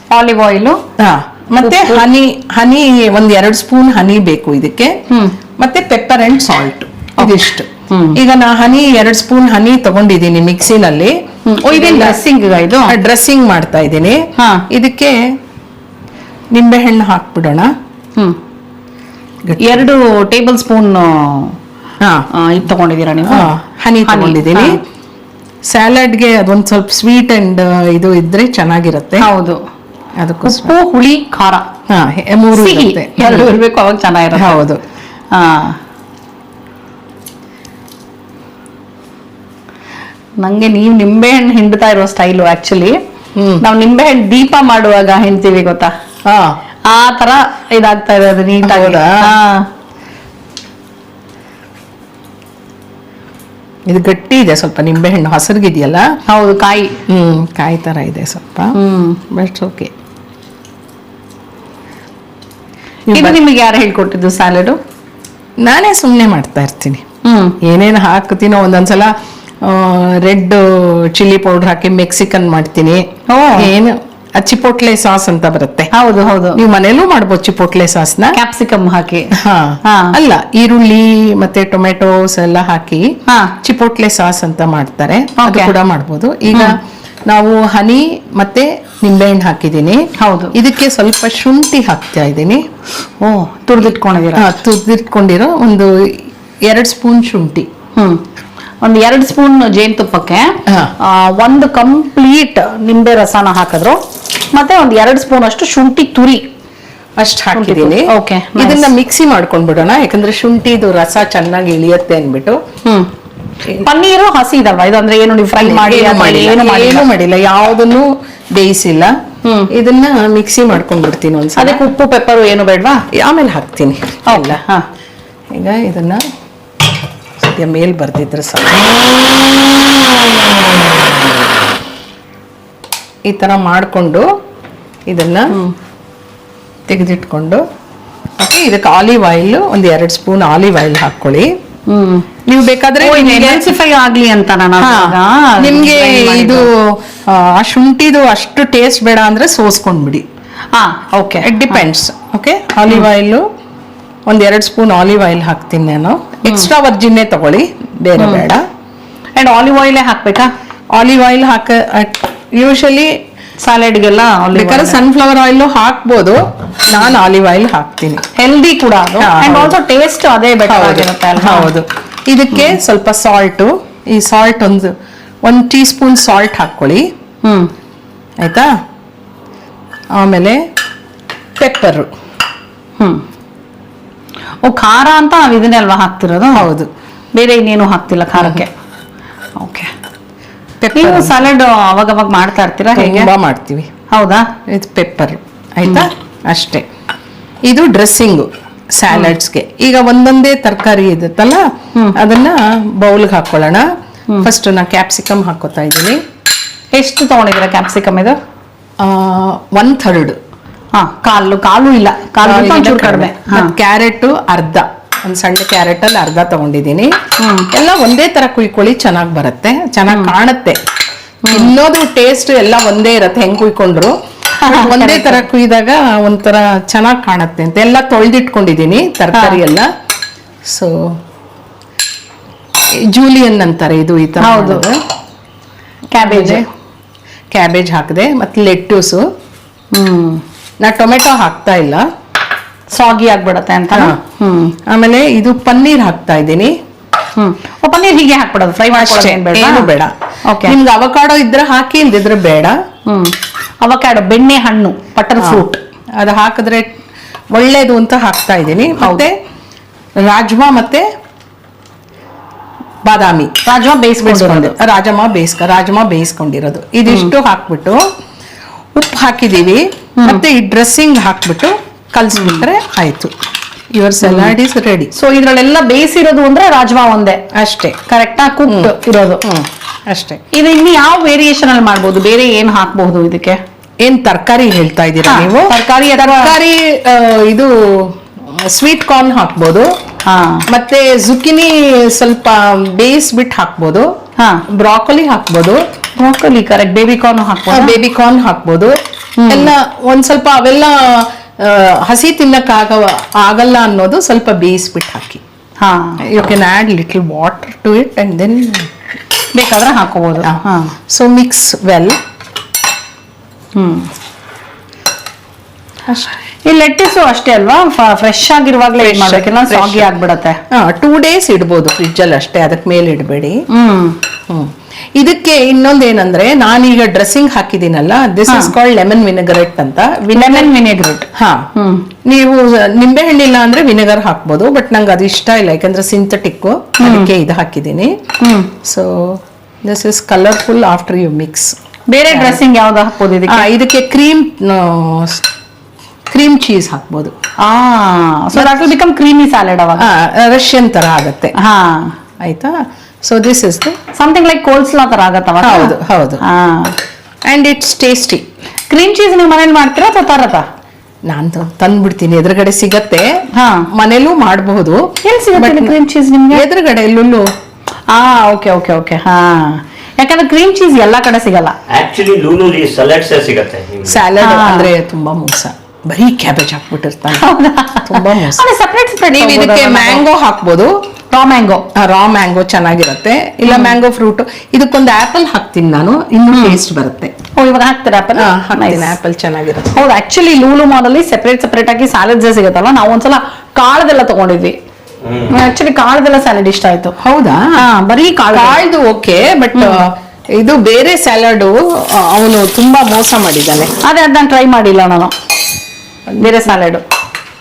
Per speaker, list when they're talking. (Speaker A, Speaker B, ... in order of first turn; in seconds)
Speaker A: 0.1-0.8, 1.6-2.0, 5.1-5.3, 7.2-8.2, 11.4-12.9, 14.4-14.7, 19.6-21.6, 22.3-23.5, 24.1-24.8, 29.2-29.6, 30.4-31.6, 32.5-34.6, 35.3-35.8, 40.4-42.9, 43.6-45.9, 46.9-49.7, 56.3-57.0, 58.7-59.2, 63.1-64.8, 67.2-67.5, 73.3-73.7, 75.9-76.6, 78.3-79.3, 79.8-80.2, 83.3-83.5, 85.4-85.7, 86.5-86.8, 90.2-90.5, 93.2-94.5, 98.0-98.2, 98.8-104.0, 104.5-106.4, 107.5-108.9, 112.8-113.1, 113.7-117.1, 119.4-119.7, 121.6-123.0, 124.3-124.8, 141.9-142.3, 143.0-146.7, 150.7-151.8, 158.2-158.4, 159.3-160.5, 163.6-165.0, 168.3-171.7, 177.4-177.7, 184.6-186.7, 187.3-188.7, 189.6-189.9, 190.9-193.3, 194.1-194.5, 206.9-208.4, 210.9-213.7, 217.4-217.7, 221.4-221.7, 224.5-225.4, 229.3-229.6, 234.4-234.8, 236.1-236.6, 239.9-240.4, 242.9-244.7, 247.4-249.9, 250.4-250.8, 253.1-255.8, 259.0-259.2, 263.6-264.7, 270.2-270.4, 272.4-272.6, 274.2-274.5, 275.1-277.4, 278.1-279.4, 280.5-283.6, 285.2-286.6, 290.2-290.6, 294.4-294.6, 296.2-297.9, 299.4-299.7, 305.8-306.2, 309.5-310.9, 313.7-314.1, 316.6-320.6, 323.7-324.2, 328.5-328.7, 330.3-332.1, 337.0-337.3, 338.4-338.7, 342.1-343.6, 347.6-350.1, 351.6-352.1, 354.1-356.9, 358.9-360.6, 363.5-363.9, 365.2-366.6, 368.1-371.8, 374.4-374.9, 377.3-380.2, 381.3-381.8, 383.6-384.0, 386.5-386.8, 387.6-389.1, 389.9-394.8, 395.4-397.1, 397.8-398.8, 399.7-400.0, 404.0-405.3, 406.4-407.0
Speaker B: 1.0-4.9, 5.6-12.2, 12.9-15.2, 16.5-17.7, 19.4-19.9, 22.0-22.2, 23.2-24.8, 25.6-29.3, 30.2-30.7, 31.9-33.5, 34.3-34.8, 43.4-43.6, 46.2-46.6, 48.6-49.3, 53.9-56.0, 57.1-58.8, 59.3-59.9, 63.1-63.4, 65.6-67.0, 67.6-73.0, 73.6-75.9, 76.5-78.4, 79.4-83.1, 83.6-86.7, 87.3-90.0, 90.5-92.6, 94.3-95.9, 96.7-97.7, 100.7-100.9, 107.2-112.6, 115.6-119.1, 119.7-121.8, 123.1-124.6, 125.5-126.2, 127.4-129.2, 130.0-131.0, 133.3-134.3, 135.1-135.7, 136.9-137.6, 138.4-141.5, 142.4-143.7, 144.8-150.2, 151.4-153.4, 154.3-158.6, 160.9-163.1, 164.5-168.2, 169.2-169.7, 170.7-174.9, 175.4-177.1, 178.4-178.7, 180.1-180.6, 181.6-182.1, 186.5-186.9, 188.3-188.6, 190.8-191.4, 192.9-193.9, 194.7-196.8, 197.6-203.9, 204.4-206.2, 209.0-210.4, 212.4-217.1, 217.7-220.8, 221.5-229.9, 230.7-231.2, 233.0-235.0, 236.2-236.7, 237.5-239.2, 240.8-242.1, 243.9-244.2, 244.9-246.7, 248.9-252.8, 255.4-255.6, 256.2-256.9, 257.5-259.3, 260.2-261.1, 263.1-263.5, 264.2-268.0, 268.9-273.3, 273.9-275.1, 277.5-278.0, 278.7-278.9, 279.4-280.4, 284.0-289.9, 290.7-294.1, 294.7-295.8, 297.7-299.0, 299.5-305.4, 306.2-308.9, 310.4-312.2, 319.0-320.1, 320.7-323.6, 324.5-330.7, 331.3-331.7, 332.2-338.1, 338.8-341.7, 342.3-342.6, 343.5-345.4, 346.3-347.3, 348.5-348.8, 350.0-351.5, 352.4-353.9, 355.6-356.4, 357.5-358.4, 361.3-365.9, 366.5-367.5, 374.1-377.5, 378.0-378.6, 379.3-381.0, 381.9-387.3, 388.3-390.0, 397.2-397.9, 398.5-403.9, 406.3-406.7
Speaker C: 371.9-374.2